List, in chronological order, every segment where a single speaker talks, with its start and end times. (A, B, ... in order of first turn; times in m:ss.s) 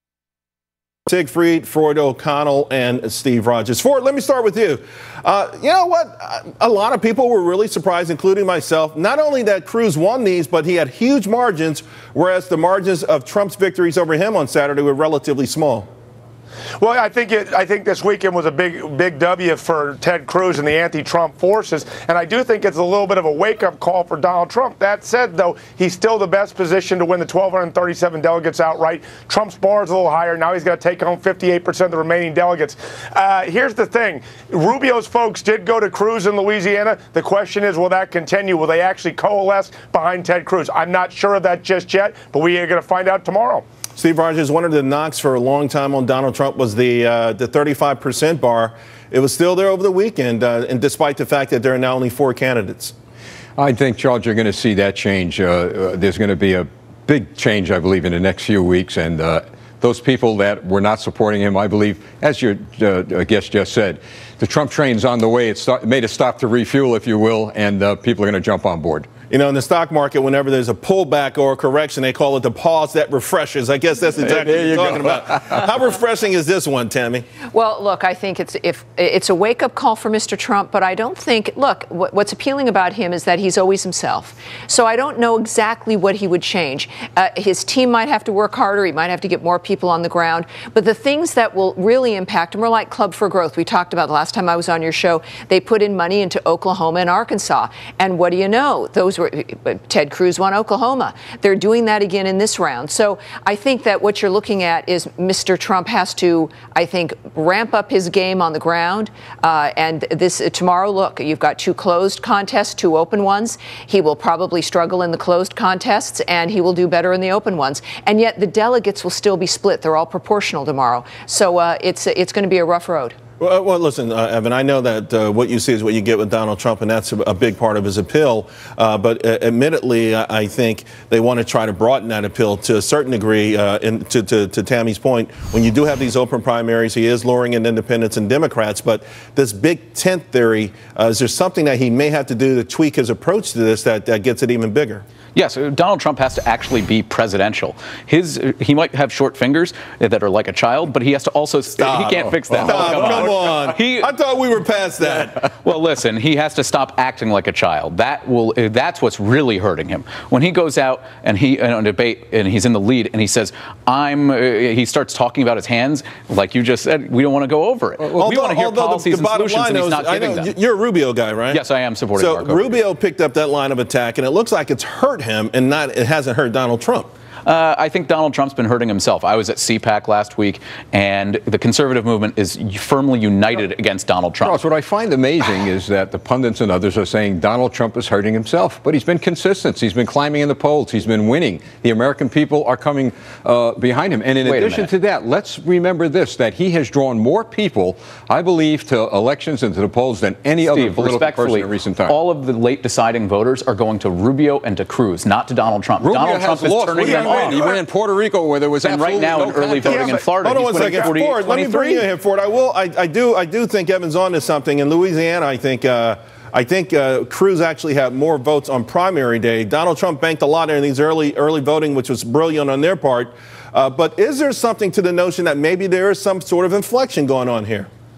0:01.1-0:15.9 A
0:16.8-0:43.6 B
0:44.0-0:52.9 A
0:53.6-1:09.1 C
1:09.3-1:17.2 A
1:14.4-1:15.0 C
1:17.5-2:03.2 D
2:03.4-2:25.0 A
2:25.4-2:34.1 E
2:31.8-2:35.5 A
2:35.4-2:50.5 E
2:48.2-2:51.6 A
2:51.5-2:52.7 E
2:52.2-2:57.1 A
2:57.4-3:04.6 E
3:04.4-3:22.2 C
3:14.4-3:14.9 E
3:20.7-3:27.6 E
3:26.0-3:30.2 C
3:27.0-3:27.8 B
3:28.8-3:32.1 E
3:29.8-3:30.3 B
3:30.4-3:47.9 A